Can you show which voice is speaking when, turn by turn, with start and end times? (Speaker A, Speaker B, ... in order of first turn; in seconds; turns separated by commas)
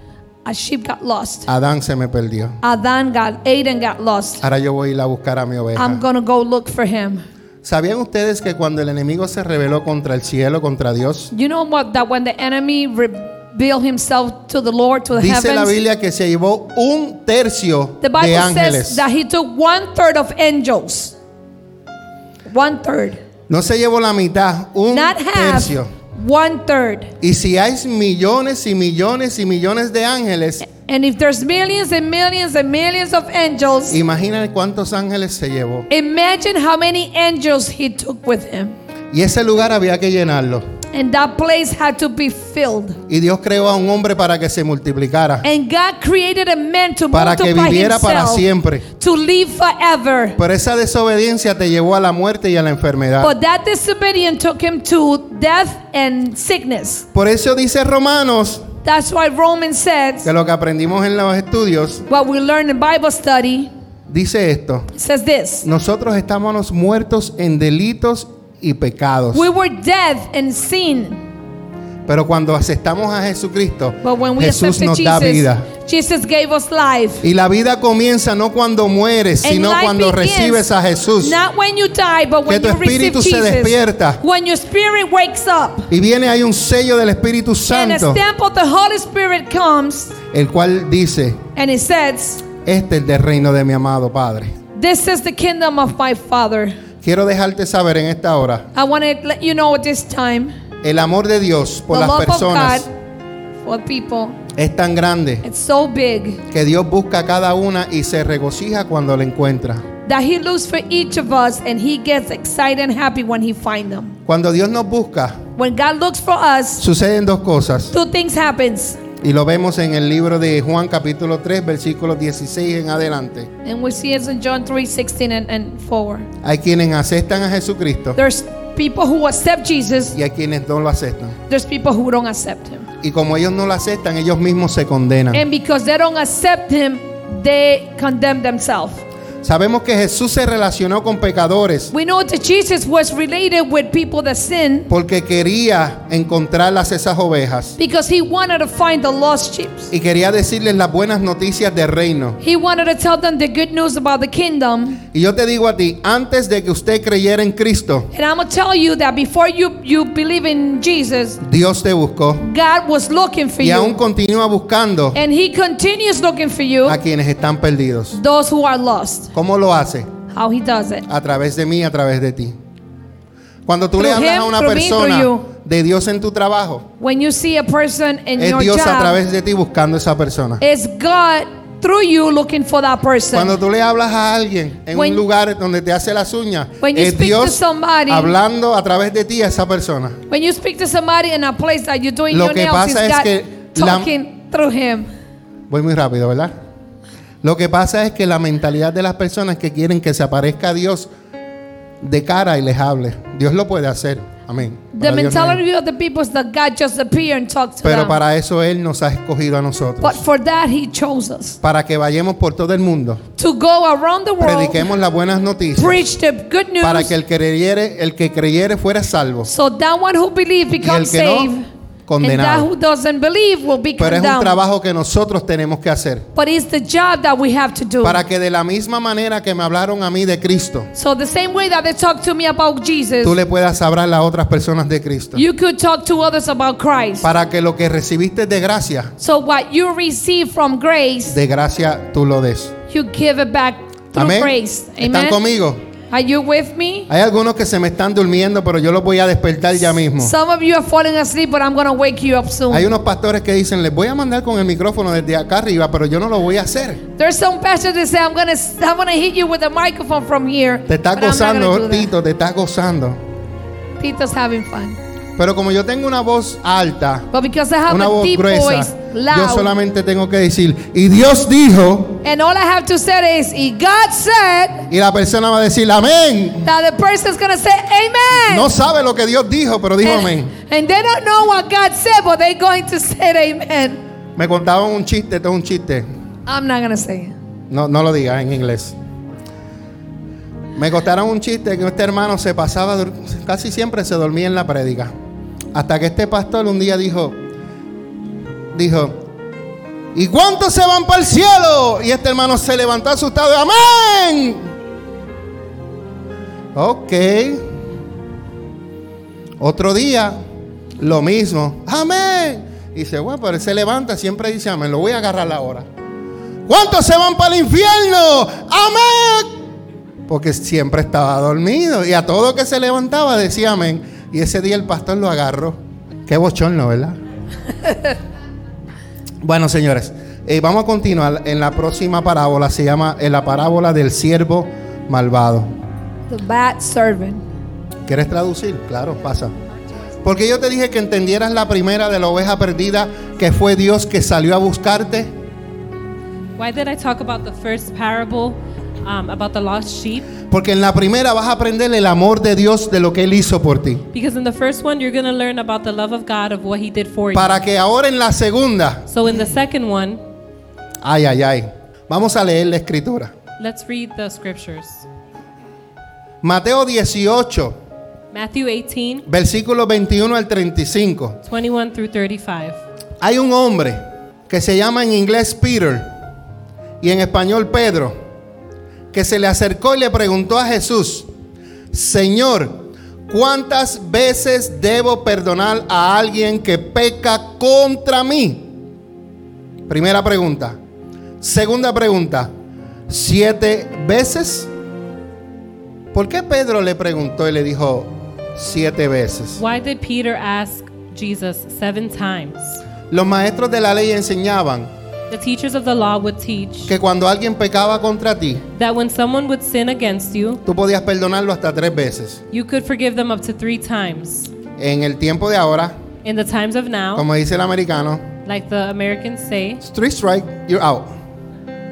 Speaker A: 0.4-1.5, Speaker B: 1.5-2.6, Speaker A: 2.6-4.4, Speaker B: 4.4-6.0, Speaker A: 5.8-7.2, Speaker B: 7.6-11.3, Speaker A: 11.3-15.8, Speaker B: 15.1-19.0, Speaker A: 18.0-21.1, Speaker A: 22.5-23.2, Speaker B: 23.5-25.9, Speaker A: 24.9-27.1, Speaker B: 27.2-30.6, Speaker A: 30.6-34.0, Speaker B: 33.9-35.9, Speaker A: 35.9-38.8, Speaker B: 39.1-40.6, Speaker A: 40.9-43.0, Speaker B: 43.1-45.5, Speaker A: 45.4-48.5, Speaker B: 47.1-48.8, Speaker A: 49.0-50.4, Speaker B: 50.4-53.3, Speaker A: 53.2-57.1, Speaker B: 57.1-58.7, Speaker A: 58.8-60.3, Speaker B: 60.2-62.0, Speaker A: 62.1-63.7, Speaker B: 64.1-64.9, Speaker A: 64.9-65.7, Speaker B: 65.6-69.5, Speaker A: 69.3-71.2, Speaker B: 72.1-75.7, Speaker A: 74.0-77.2, Speaker B: 77.2-81.4, Speaker A: 79.4-80.7, Speaker A: 81.2-85.9, Speaker B: 82.5-84.2, Speaker B: 85.9-88.2, Speaker A: 87.7-90.2, Speaker B: 90.3-91.4, Speaker A: 91.5-92.5, Speaker B: 92.6-94.5, Speaker A: 94.7-96.8, Speaker B: 97.0-98.7, Speaker A: 98.7-100.5, Speaker B: 100.8-102.9, Speaker A: 101.9-102.9, Speaker A: 103.6-104.4, Speaker B: 104.5-105.4, Speaker A: 105.4-106.4, Speaker B: 106.5-109.8, Speaker A: 110.0-114.2, Speaker B: 114.2-115.4, Speaker A: 115.5-116.8, Speaker B: 116.8-117.9, Speaker A: 117.9-119.0, Speaker B: 119.2-123.5, Speaker A: 123.6-126.3, Speaker B: 126.4-128.2, Speaker A: 128.2-130.2, Speaker B: 130.1-131.4, Speaker A: 131.5-132.9, Speaker B: 133.0-135.4, Speaker A: 135.3-139.0, Speaker B: 139.4-141.9, Speaker A: 141.9-144.9, Speaker B: 144.9-147.8, Speaker A: 147.8-149.9, Speaker B: 149.9-152.4, Speaker A: 152.4-155.0, Speaker B: 155.1-158.1, Speaker A: 158.1-161.4, Speaker B: 161.4-162.4, Speaker A: 162.4-164.0, Speaker B: 163.6-165.2, Speaker A: 165.1-167.0, Speaker B: 166.8-168.2, Speaker A: 168.1-169.3, Speaker B: 169.3-170.1, Speaker A: 170.3-171.1, Speaker B: 171.1-172.6, Speaker B: 173.7-176.9, Speaker A: 174.0-175.5, Speaker A: 177.0-179.2, Speaker B: 178.4-180.6, Speaker A: 180.6-183.6, Speaker B: 183.3-190.2, Speaker A: 184.9-185.2, Speaker A: 186.8-188.3, Speaker A: 190.3-195.1, Speaker B: 192.3-194.1, Speaker B: 195.7-196.5, Speaker B: 197.4-201.1, Speaker B: 202.0-205.6, Speaker A: 204.9-208.2, Speaker B: 207.8-210.2, Speaker A: 210.0-211.6, Speaker B: 211.6-213.2, Speaker A: 213.4-214.9, Speaker B: 214.4-216.0, Speaker A: 215.8-217.1, Speaker B: 216.8-219.5, Speaker A: 219.4-221.6, Speaker B: 220.8-221.5, Speaker B: 222.1-222.7, Speaker A: 222.2-224.6, Speaker B: 224.0-226.3, Speaker A: 226.3-228.2, Speaker B: 228.0-230.9, Speaker A: 230.9-233.4, Speaker B: 233.2-235.4, Speaker A: 235.3-237.3, Speaker B: 237.2-239.1, Speaker A: 239.2-241.3, Speaker B: 241.3-242.7, Speaker A: 242.9-245.4, Speaker B: 244.1-245.8, Speaker A: 246.1-247.1, Speaker B: 247.1-250.3, Speaker A: 250.2-252.9, Speaker B: 252.7-257.0, Speaker A: 257.2-262.1, Speaker B: 260.9-263.2, Speaker A: 264.0-265.0, Speaker B: 265.4-267.3, Speaker A: 267.3-269.7, Speaker B: 267.9-272.2, Speaker A: 272.2-274.9, Speaker B: 274.9-276.6, Speaker A: 276.6-278.7, Speaker B: 278.3-280.5, Speaker A: 280.0-284.0, Speaker B: 284.4-286.0, Speaker A: 286.5-287.3, Speaker B: 287.7-288.9, Speaker B: 290.7-295.1, Speaker B: 295.7-297.4, Speaker B: 298.7-299.2, Speaker B: 300.1-304.7, Speaker B: 306.7-307.7, Speaker B: 309.6-310.4, Speaker B: 311.0-315.9, Speaker B: 316.7-319.5, Speaker B: 320.3-327.2, Speaker B: 329.4-335.7, Speaker A: 336.3-337.4, Speaker B: 338.1-339.5, Speaker B: 340.2-345.3, Speaker C: 346.6-350.3, Speaker B: 350.4-354.0, Speaker C: 354.1-357.6, Speaker B: 357.3-359.1, Speaker C: 359.1-360.2, Speaker B: 361.0-363.3, Speaker C: 363.6-365.1, Speaker B: 366.4-367.7, Speaker C: 368.3-369.2, Speaker B: 369.3-371.4, Speaker C: 371.4-372.8, Speaker B: 373.2-376.1, Speaker B: 377.0-378.1, Speaker B: 379.1-381.3, Speaker B: 381.9-388.7, Speaker B: 389.9-390.8, Speaker B: 391.4-392.5, Speaker B: 393.1-394.7, Speaker B: 396.1-399.6, Speaker C: 399.6-402.8, Speaker B: 403.1-404.9, Speaker C: 405.3-406.9, Speaker B: 406.9-408.6, Speaker C: 408.8-410.6, Speaker B: 410.6-412.4, Speaker C: 412.5-414.5, Speaker B: 414.8-415.9, Speaker C: 416.2-417.2, Speaker B: 417.1-418.3, Speaker C: 418.4-419.8, Speaker B: 419.8-421.1